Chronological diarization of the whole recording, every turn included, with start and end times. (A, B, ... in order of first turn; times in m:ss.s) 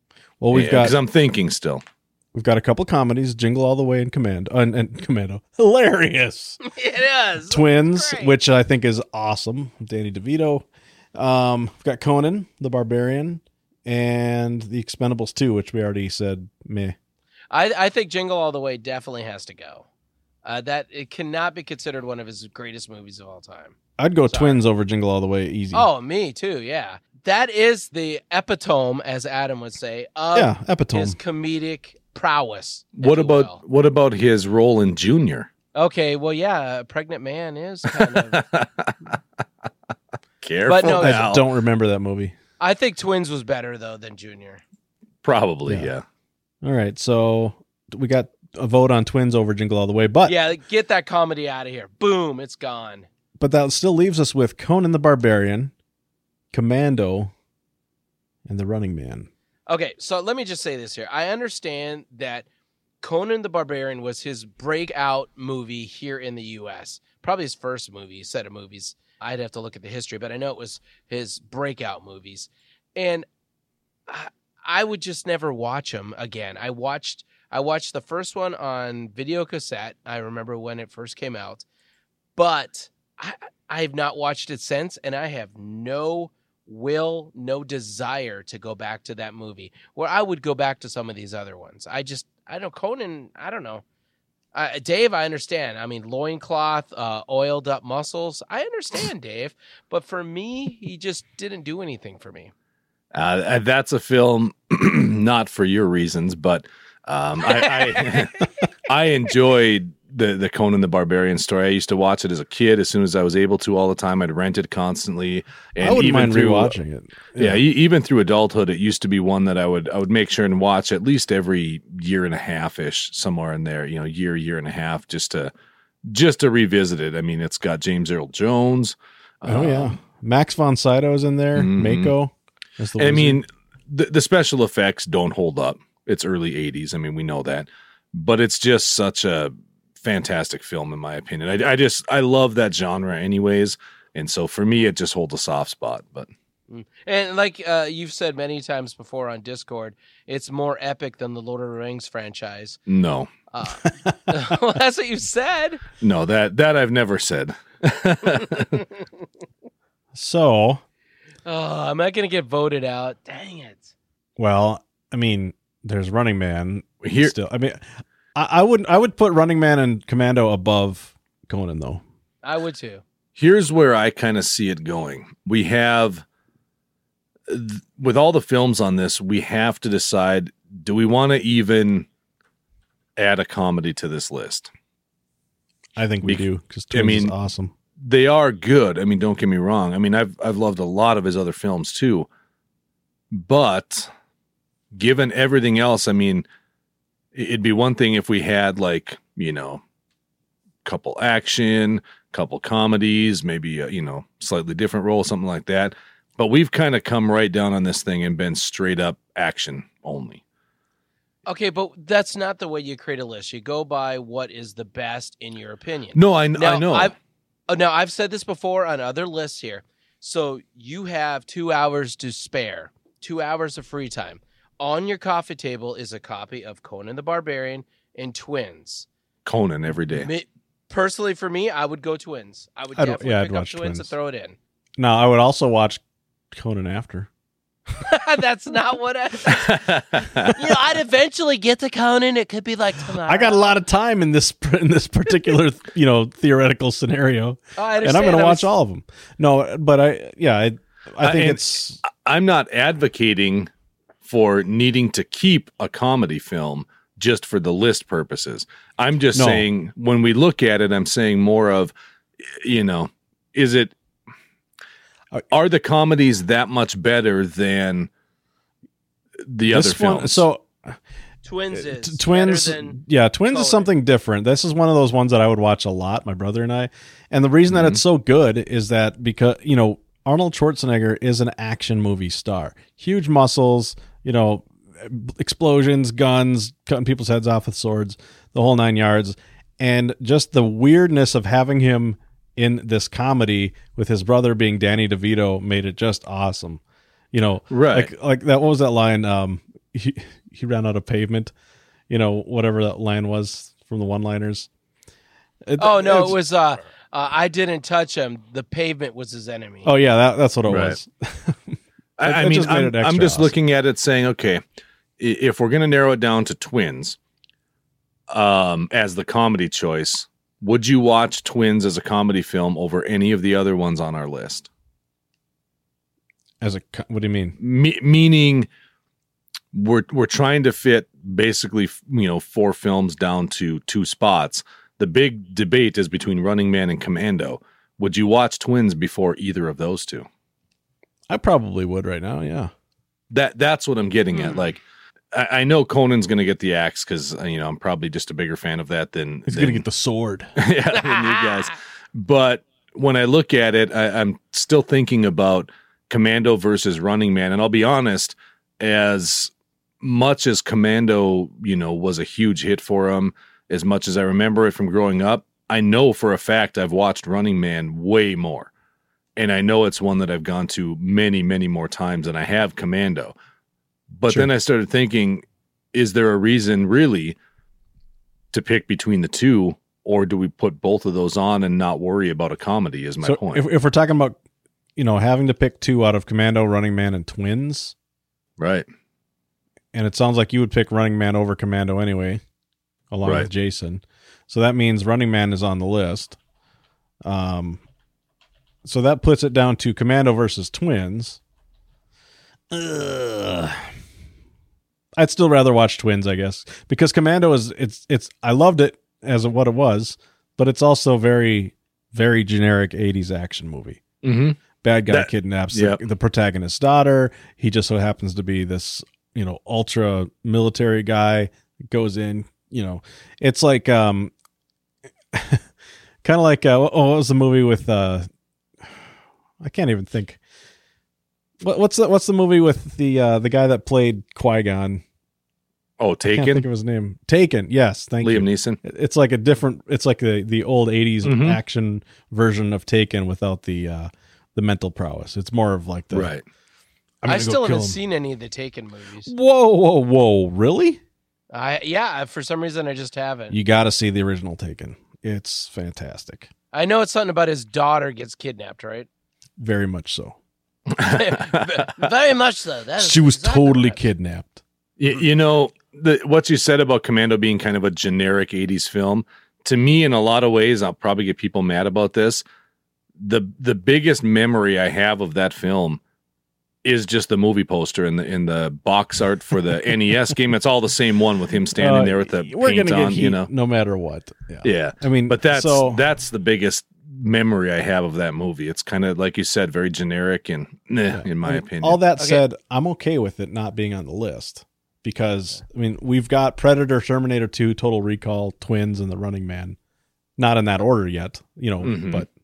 0:00.4-0:01.0 A
0:00.5-0:01.8 B
0:02.3-0:06.6 A
0:06.6-0:08.3 C
0:07.5-0:17.0 A
0:17.5-0:19.9 C
0:20.4-0:23.8 C
0:24.0-0:25.9 A
0:24.3-0:24.6 C
0:25.7-0:33.6 C
0:30.3-0:31.2 A
0:33.0-0:35.5 B
0:35.7-0:38.4 C
0:37.9-0:39.2 B
0:40.4-0:41.5 B
0:40.7-0:41.2 C
0:40.8-0:42.3 A
0:42.6-0:44.6 C
0:45.2-0:46.0 B
0:46.6-0:50.4 A
0:50.2-0:53.1 C
0:53.4-0:55.7 A
0:56.5-0:57.3 A
0:58.4-0:59.3 A
0:59.7-1:02.4 C
1:03.0-1:13.2 C
1:14.1-1:21.6 C
1:22.4-1:33.8 C
1:34.5-1:42.5 C
1:43.1-1:56.7 B
1:55.8-1:57.6 A
1:57.4-2:05.5 B
2:06.1-2:10.0 B
2:09.4-2:13.4 A
2:11.5-2:12.1 B
2:13.0-2:26.3 B
2:26.7-2:32.8 C
2:32.9-2:33.3 B
2:33.5-2:35.8 C
2:33.8-2:34.1 A
2:36.0-2:38.8 B
2:40.1-2:40.8 A
2:41.4-2:43.9 C
2:44.4-2:52.0 A
2:47.0-2:47.3 B
2:52.4-2:53.0 C
2:53.4-2:56.2 B
2:57.5-3:02.1 B
3:03.2-3:04.7 B
3:06.0-3:07.7 A
3:06.2-3:07.3 B
3:08.0-3:12.3 B
3:13.3-3:14.1 B
3:14.9-3:16.4 B
3:17.3-3:19.8 B
3:20.8-3:30.4 B
3:31.4-3:37.1 C
3:36.1-3:37.1 B
3:37.7-3:49.1 C
3:49.4-3:50.3 B
3:50.1-3:54.6 C
3:53.0-3:54.1 A
3:55.0-3:56.0 A
3:56.5-3:57.3 A
3:58.0-3:59.8 C
3:59.5-4:00.6 B
4:00.4-4:03.7 C
4:03.2-4:12.0 A
4:07.8-4:08.7 C
4:11.2-4:13.7 B
4:14.2-4:21.9 B
4:19.3-4:19.7 A
4:22.5-4:23.9 B
4:25.5-4:28.1 B
4:29.4-4:30.4 B
4:29.7-4:31.0 A
4:31.4-4:33.9 C
4:31.7-5:01.5 A
4:37.7-4:38.0 B
4:57.7-4:58.1 B
5:02.1-5:04.7 A
5:05.6-5:06.4 A
5:05.8-5:09.9 C
5:09.8-5:13.5 A
5:10.7-5:11.0 B
5:12.2-5:14.6 B
5:15.2-5:17.2 B
5:18.3-5:24.7 B
5:26.6-5:27.6 A
5:27.6-5:28.7 B
5:29.7-5:40.3 B
5:41.3-5:42.7 A
5:43.3-5:44.8 B
5:44.3-5:44.6 C
5:45.3-5:49.8 B
5:49.5-5:50.5 A
5:50.6-6:08.7 B
5:50.9-5:51.7 C
6:09.4-6:13.3 B
6:14.1-6:17.4 B
6:18.5-6:23.6 B
6:23.2-6:24.4 A
6:25.0-6:27.9 A
6:28.6-6:28.8 B
6:29.9-6:32.4 A
6:33.1-6:36.4 A
6:37.2-6:37.8 A
6:38.8-6:41.4 A
6:42.7-6:43.9 A
6:45.2-6:54.0 A
6:54.2-6:56.0 B
6:54.8-7:04.3 A
7:05.3-7:05.6 A
7:06.2-7:08.3 A
7:09.6-7:10.4 A
7:11.6-7:15.0 A
7:16.0-7:16.6 B
7:16.3-7:26.3 A
7:18.2-7:18.8 B
7:21.2-7:21.6 B
7:26.1-7:26.4 B
7:27.2-7:28.0 A
7:27.2-7:29.3 C
7:29.2-7:31.0 A
7:31.5-7:33.6 C
7:33.5-7:36.5 A
7:36.7-7:39.1 C
7:39.6-7:40.4 A
7:40.9-7:41.8 B
7:41.0-7:44.0 C
7:43.0-7:44.6 A
7:45.0-7:52.4 B
7:53.2-7:56.0 B
7:56.8-8:03.5 B
8:01.7-8:06.0 A
8:04.6-8:12.0 B
8:11.1-8:19.8 A
8:12.2-8:12.4 C
8:20.4-8:22.3 A
8:21.8-8:22.2 B